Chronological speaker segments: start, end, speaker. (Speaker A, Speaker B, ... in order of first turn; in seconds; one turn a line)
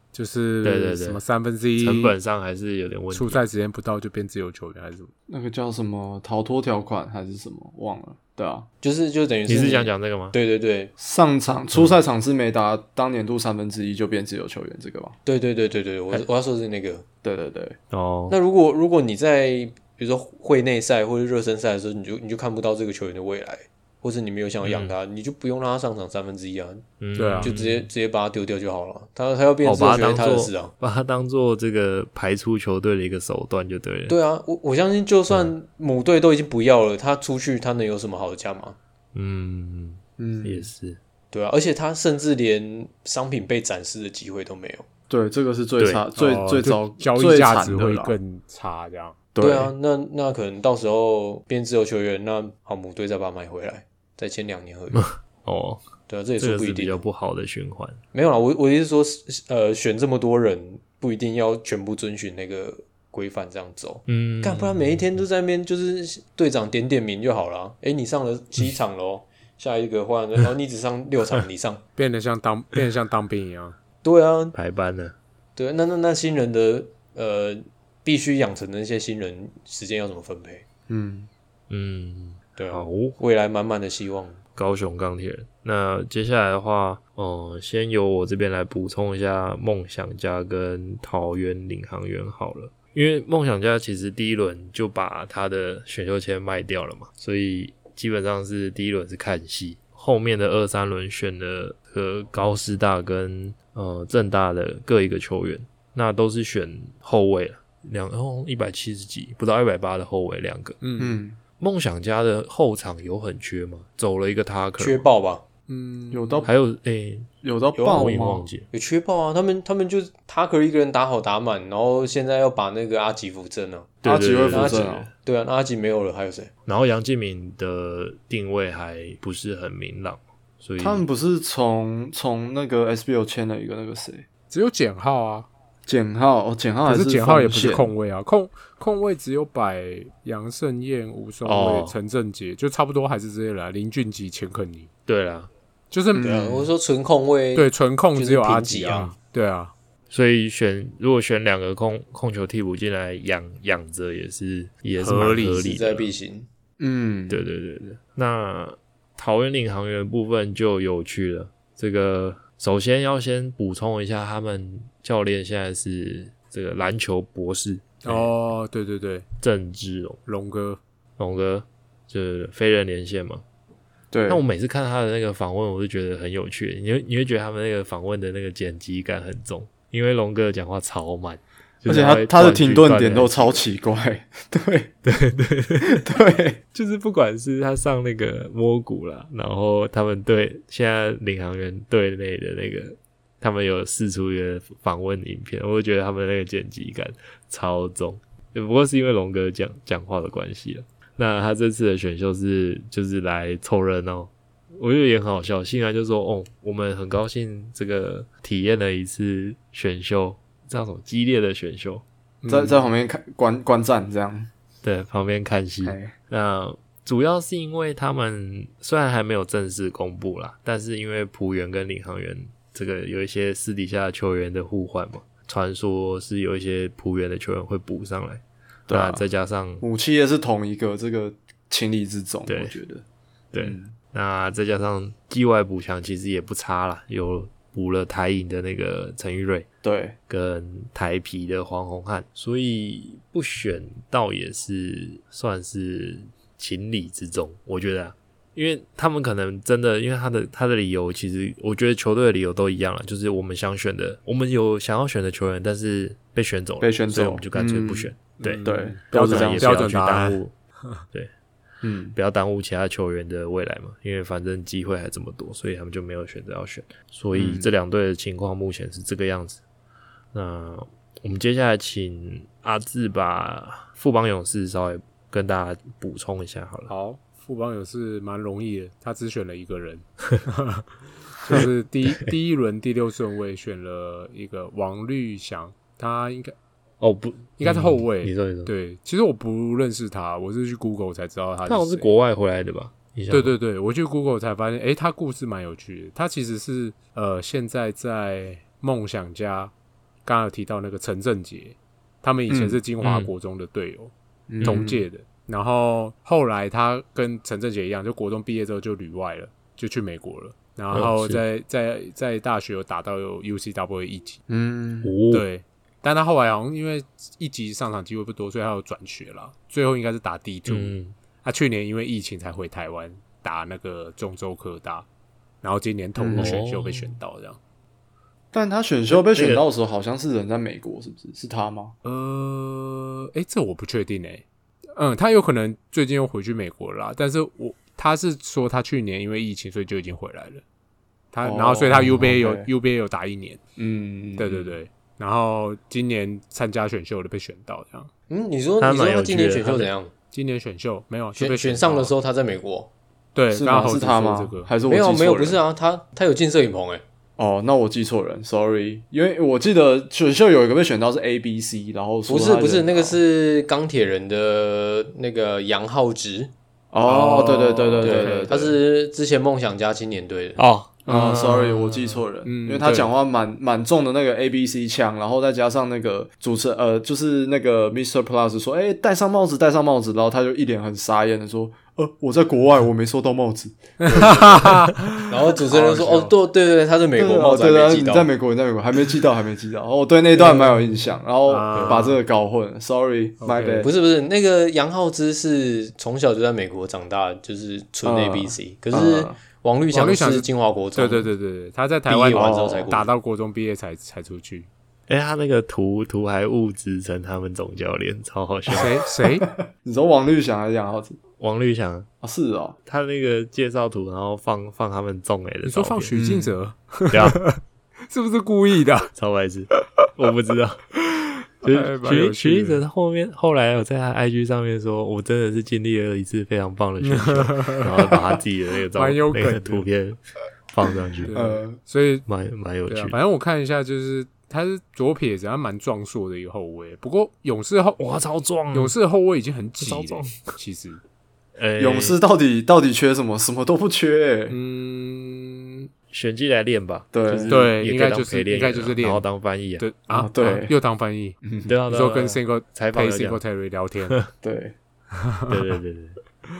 Speaker A: 0.1-2.1
Speaker B: 0.6-1.2
Speaker B: 1.8-3.4
Speaker A: 3.1-5.1
Speaker C: 5.3-8.7
Speaker D: 8.8-10.9
Speaker B: 9.5-10.4
Speaker C: 11.0-15.1
Speaker D: 15.2-17.0
Speaker C: 17.2-17.8
Speaker B: 17.9-18.4
Speaker D: 18.3-26.9
Speaker B: 24.6-24.9
Speaker B: 27.0-27.9
Speaker A: 27.2-27.5
Speaker D: 27.4-30.7
Speaker B: 29.6-34.2
Speaker D: 34.1-38.8
Speaker B: 39.1-41.0
Speaker C: 40.2-40.7
Speaker D: 41.3-44.8
Speaker C: 45.1-48.1
Speaker B: 45.8-46.0
Speaker A: 46.1-49.2
Speaker C: 49.3-49.7
Speaker D: 49.4-55.0
Speaker B: 54.9-55.8
Speaker D: 56.1-57.0
Speaker B: 56.4-58.0
Speaker D: 58.1-71.8
Speaker B: 64.1-65.2
Speaker A: 72.0-73.8
Speaker D: 74.0-74.5
Speaker B: 74.5-75.1
Speaker D: 75.5-80.6
Speaker C: 80.9-81.3
Speaker B: 81.7-83.2
Speaker D: 82.5-84.4
Speaker B: 84.5-110.8
Speaker A: 110.8-111.2
Speaker C: 111.0-111.4
Speaker B: 111.6-115.1
Speaker D: 114.8-115.4
Speaker A: 115.7-116.5
Speaker C: 116.1-116.5
Speaker B: 116.4-117.3
Speaker C: 117.4-118.5
Speaker D: 117.7-124.0
Speaker B: 117.9-118.7
Speaker C: 124.0-125.1
Speaker B: 124.0-125.1
Speaker D: 124.5-126.5
Speaker B: 126.7-131.1
Speaker C: 130.8-134.2
Speaker A: 134.5-135.5
Speaker C: 135.9-137.9
Speaker A: 136.8-144.9
Speaker B: 141.4-141.9
Speaker B: 145.1-145.5
Speaker A: 145.9-146.4
Speaker C: 146.1-146.7
Speaker D: 146.2-149.1
Speaker A: 147.5-149.7
Speaker B: 150.1-156.1
Speaker A: 155.0-155.7
Speaker D: 155.6-156.5
Speaker C: 156.8-157.4
Speaker B: 157.3-168.3
Speaker A: 168.0-169.3
Speaker B: 169.4-170.2
Speaker A: 170.2-170.8
Speaker B: 171.2-173.4
Speaker C: 174.1-174.4
Speaker B: 174.3-183.6
Speaker C: 181.9-184.9
Speaker B: 185.0-186.0
Speaker C: 185.8-186.6
Speaker B: 186.7-212.0
Speaker A: 212.4-212.8
Speaker C: 212.5-214.5
Speaker B: 214.8-229.8
Speaker C: 215.8-216.1
Speaker C: 228.9-229.2
Speaker C: 229.8-233.0
Speaker B: 232.4-232.7
Speaker B: 233.5-239.7
Speaker C: 233.6-233.9
Speaker C: 239.8-240.2
Speaker B: 240.3-260.5
Speaker C: 256.8-258.1
Speaker A: 258.4-261.0
Speaker C: 258.6-259.8
Speaker C: 261.8-262.2
Speaker B: 262.1-269.6
Speaker C: 267.3-267.7
Speaker B: 270.3-276.9
Speaker A: 276.9-286.5
Speaker B: 287.0-288.7
Speaker A: 287.6-292.1
Speaker B: 291.6-293.6
Speaker A: 293.3-299.7
Speaker A: 300.2-314.4
Speaker C: 302.5-302.8
Speaker B: 303.0-303.3
Speaker C: 304.5-305.1
Speaker B: 310.9-311.4
Speaker C: 314.5-315.1
Speaker B: 315.0-315.4
Speaker A: 315.3-325.1
Speaker B: 320.7-321.1
Speaker A: 325.6-327.6
Speaker C: 326.1-326.6
Speaker B: 326.3-327.1
Speaker C: 328.5-331.9
Speaker B: 329.1-329.7
Speaker A: 332.0-334.4
Speaker A: 334.9-340.6
Speaker A: 341.3-343.6
Speaker C: 341.4-342.7
Speaker C: 343.8-344.8
Speaker A: 344.4-348.1
Speaker D: 348.3-350.1
Speaker B: 348.8-349.9
Speaker A: 350.3-352.1
Speaker D: 351.4-352.9
Speaker A: 353.3-354.7
Speaker C: 353.5-355.6
Speaker D: 354.8-357.0
Speaker C: 357.4-363.2
Speaker D: 362.3-366.5
Speaker C: 366.9-368.8
Speaker A: 367.0-368.6
Speaker D: 368.0-370.6
Speaker B: 370.6-372.2
Speaker C: 371.1-384.9
Speaker A: 371.1-371.6
Speaker A: 372.4-373.1
Speaker A: 384.0-386.3
Speaker D: 384.1-388.3
Speaker C: 387.2-393.9
Speaker A: 390.3-392.2
Speaker A: 393.4-393.9
Speaker D: 393.8-401.3
Speaker C: 398.0-399.4
Speaker A: 399.9-404.7
Speaker D: 402.1-403.1
Speaker C: 402.3-402.9
Speaker B: 405.1-409.0
Speaker A: 408.7-409.5
Speaker C: 408.8-411.2
Speaker B: 411.4-412.1
Speaker C: 412.2-412.8
Speaker B: 412.9-416.2
Speaker A: 415.6-419.1
Speaker C: 416.1-416.6
Speaker B: 417.1-417.4
Speaker B: 419.1-420.8
Speaker B: 421.6-431.4
Speaker A: 421.6-422.8
Speaker A: 427.0-428.1
Speaker A: 428.9-429.9
Speaker A: 431.2-432.2
Speaker C: 431.3-431.8
Speaker B: 432.2-433.1
Speaker A: 432.9-438.0
Speaker B: 438.0-438.9
Speaker A: 438.7-441.0
Speaker B: 439.8-440.6
Speaker B: 441.6-442.2
Speaker C: 441.8-444.6
Speaker A: 444.5-445.9
Speaker B: 446.1-449.9
Speaker C: 447.1-447.5
Speaker A: 447.5-449.2
Speaker A: 449.8-454.2
Speaker C: 450.1-450.7
Speaker C: 451.4-451.7
Speaker B: 451.6-453.4
Speaker C: 454.4-454.7
Speaker A: 455.2-455.6
Speaker B: 455.5-456.2